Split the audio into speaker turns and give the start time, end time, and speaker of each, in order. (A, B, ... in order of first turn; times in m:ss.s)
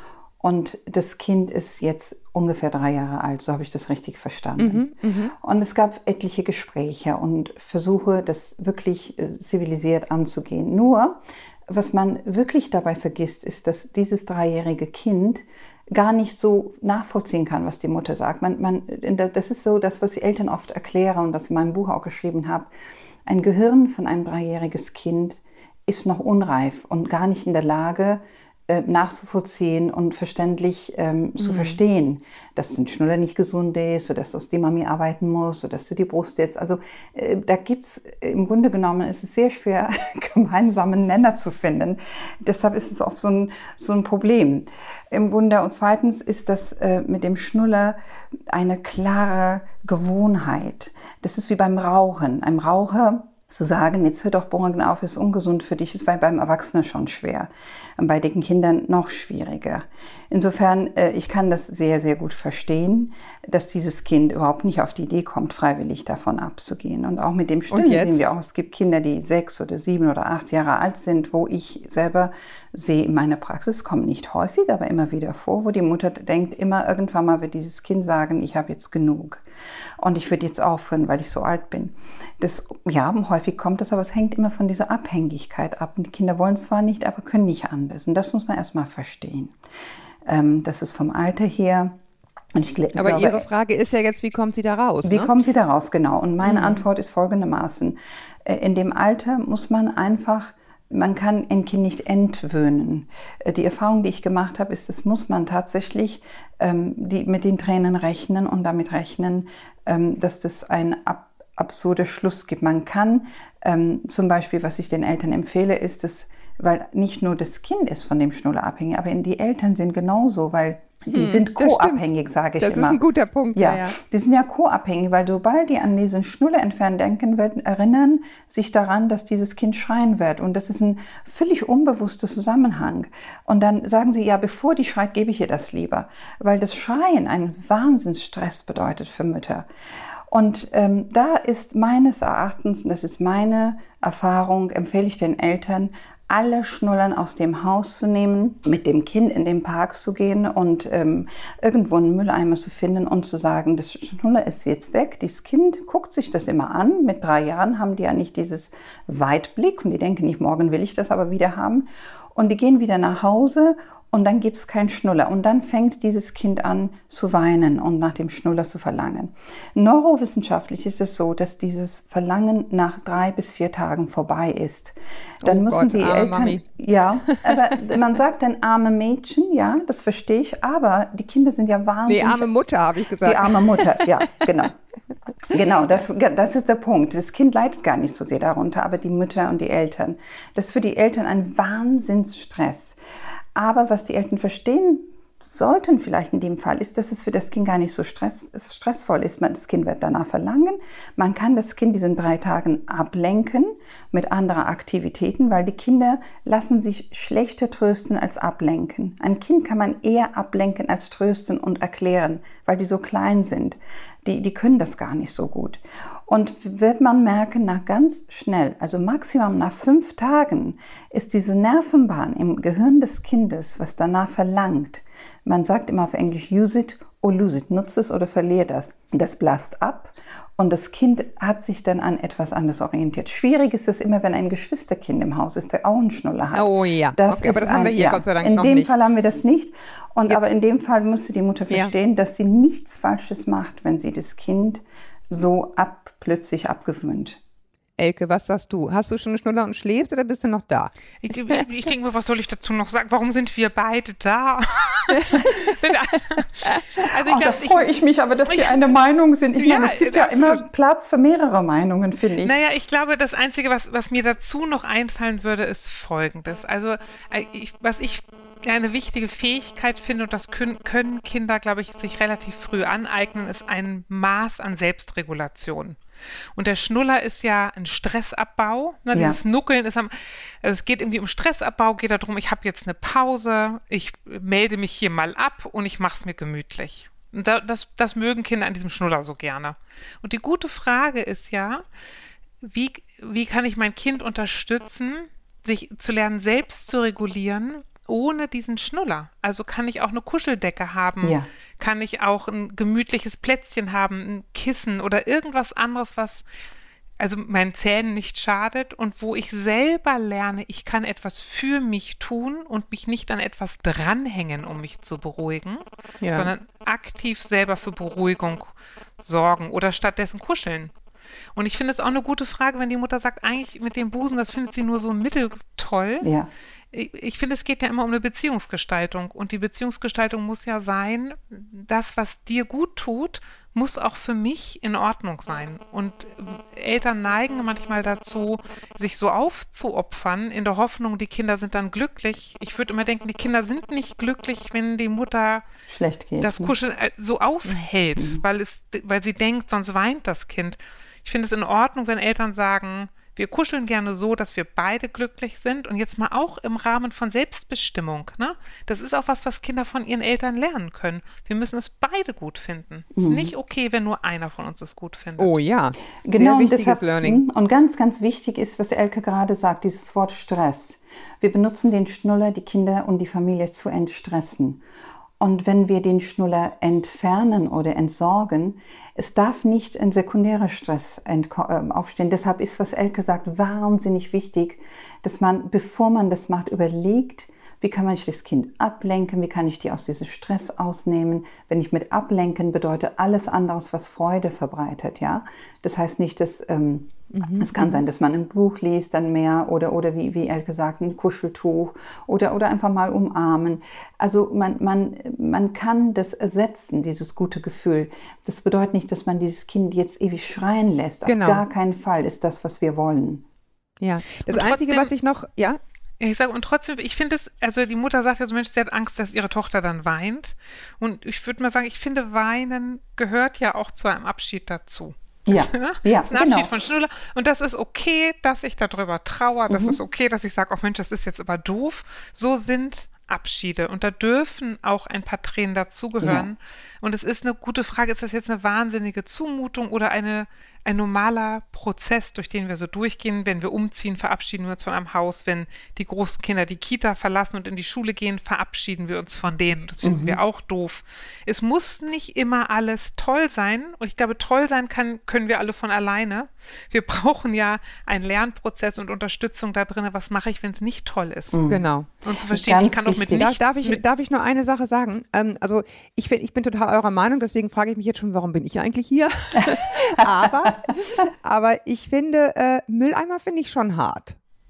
0:00.4-0:22.7 A
0:04.6-0:05.3 B
0:23.2-0:48.0 A
0:31.4-0:31.8 B
0:48.5-1:19.4 A
1:07.7-1:08.2 B
1:20.0-1:29.5 A
1:30.2-1:31.9 A
1:32.5-1:33.4 A
1:32.9-1:35.3 B
1:35.0-2:03.0 A
1:36.4-1:36.8 B
2:01.1-2:02.0 B
2:02.6-2:04.0 B
2:03.5-2:19.7 A
2:20.3-3:02.5 A
2:55.4-2:56.6 B
2:57.3-2:57.7 B
3:02.0-3:04.3 B
3:03.2-3:04.8 A
3:05.5-3:13.0 A
3:13.5-4:07.4 A
3:56.5-3:58.9 B
4:08.0-4:10.9 B
4:11.2-4:18.0 C
4:15.2-4:16.8 B
4:17.1-4:22.5 A
4:18.5-4:18.9 C
4:19.6-4:20.6 C
4:22.4-4:36.0 C
4:36.5-4:51.8 C
4:39.1-4:39.4 A
4:52.6-5:06.4 C
5:01.2-5:01.5 A
5:07.2-5:18.7 C
5:16.2-5:16.5 B
5:19.2-5:20.9 C
5:21.5-5:26.3 C
5:26.2-5:26.5 A
5:26.9-5:45.6 C
5:45.9-5:46.7 A
5:46.4-6:05.5 C
6:03.2-6:03.5 A
6:05.4-6:07.4 B
6:06.2-6:14.8 A
6:15.4-6:53.4 A
6:37.3-6:38.0 B
6:51.2-6:51.6 B
6:54.0-6:55.8 B
6:54.4-6:55.1 C
6:56.2-7:41.6 C
7:05.5-7:06.8 A
7:09.7-7:10.0 A
7:16.2-7:16.5 A
7:30.0-7:30.4 A
7:41.5-7:41.8 A
7:41.7-7:42.1 B
7:42.2-7:44.0 C
7:42.4-7:43.5 A
7:43.3-7:54.4 B
7:49.6-7:50.9 A